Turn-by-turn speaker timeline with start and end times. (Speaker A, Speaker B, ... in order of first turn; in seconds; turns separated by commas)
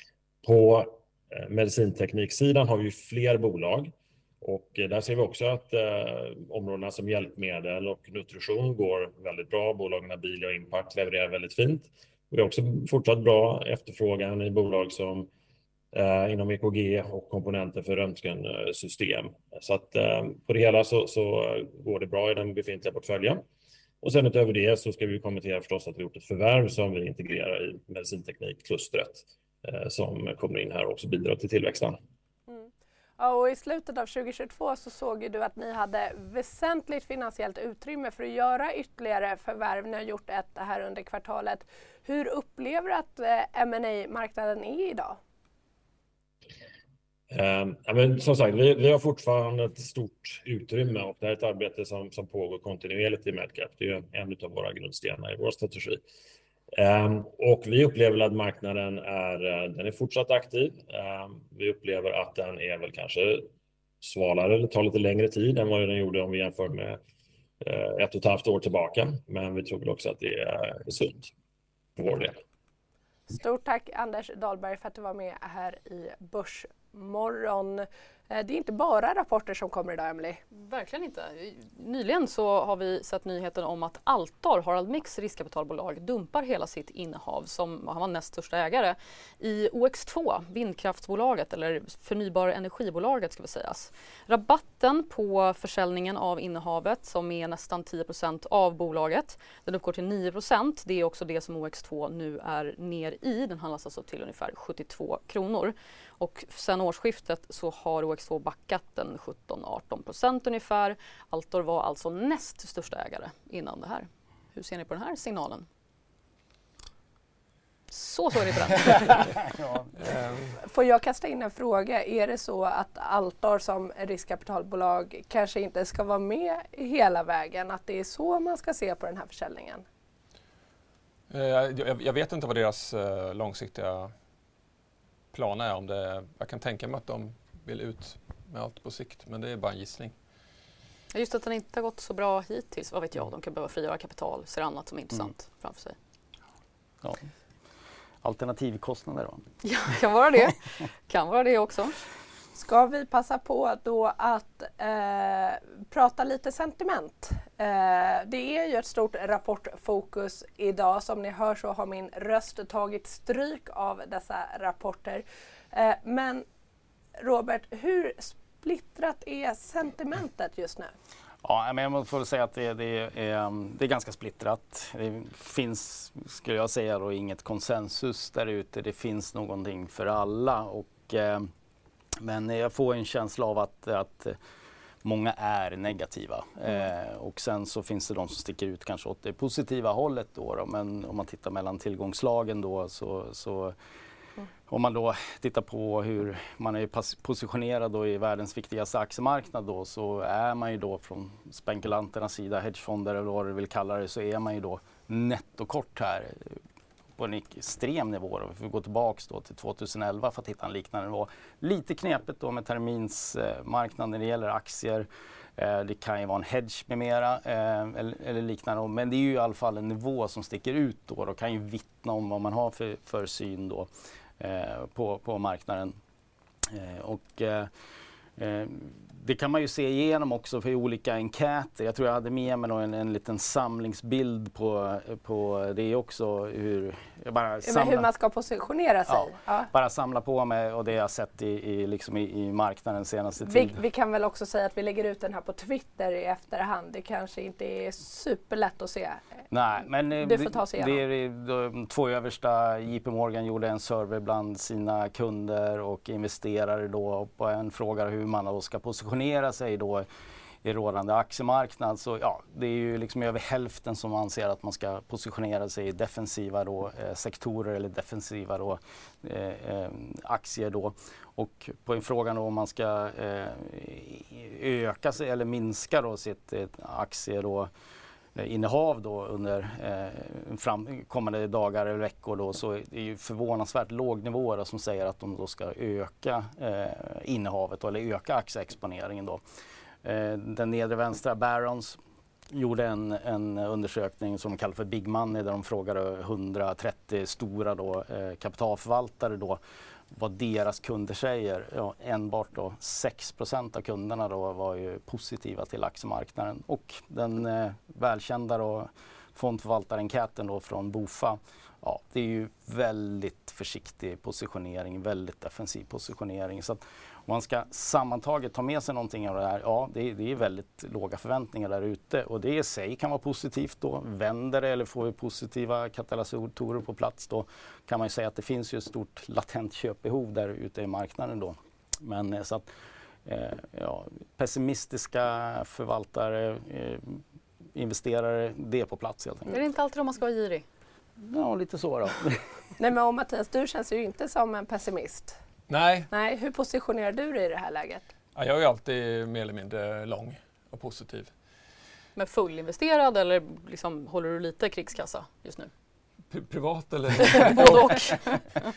Speaker A: 0.4-15.3, Speaker A: 15.9-23.4, Speaker A: 24.0-32.0, Speaker B: 32.5-45.2, Speaker A: 47.3-56.0, Speaker A: 56.8-63.5, Speaker A: 64.0-67.0, Speaker A: 67.6-71.3, Speaker A: 72.0-72.4, Speaker B: 73.3-80.4, Speaker C: 80.5-115.7, Speaker C: 117.9-119.3, Speaker D: 119.5-119.9, Speaker E: 120.0-120.6, Speaker B: 120.6-129.8, Speaker E: 131.3-134.1, Speaker E: 135.3-140.1, Speaker C: 141.1-146.0, Speaker D: 148.2-149.4, Speaker C: 149.6-152.0, Speaker B: 152.6-166.4, Speaker B: 167.2-170.9, Speaker D: 171.4-181.5, Speaker D: 182.2-184.4, Speaker D: 185.0-193.8, Speaker D: 194.7-206.6, Speaker D: 207.2-226.0, Speaker D: 226.7-227.7, Speaker D: 228.4-238.1, Speaker B: 237.6-239.7, Speaker D: 239.1-243.8, Speaker B: 243.4-249.4, Speaker D: 249.5-260.1, Speaker B: 250.2-251.0, Speaker D: 260.6-277.7, Speaker D: 278.4-289.4, Speaker D: 290.0-292.0, Speaker D: 292.5-299.6, Speaker D: 300.1-332.7, Speaker D: 333.2-337.2, Speaker D: 337.8-339.5, Speaker C: 339.5-340.6, Speaker D: 341.2-342.4, Speaker B: 342.8-345.4, Speaker E: 345.7-346.1, Speaker B: 346.1-348.1, Speaker E: 348.4-351.3, Speaker C: 352.2-355.7, Speaker E: 356.3-358.2, Speaker C: 357.4-358.4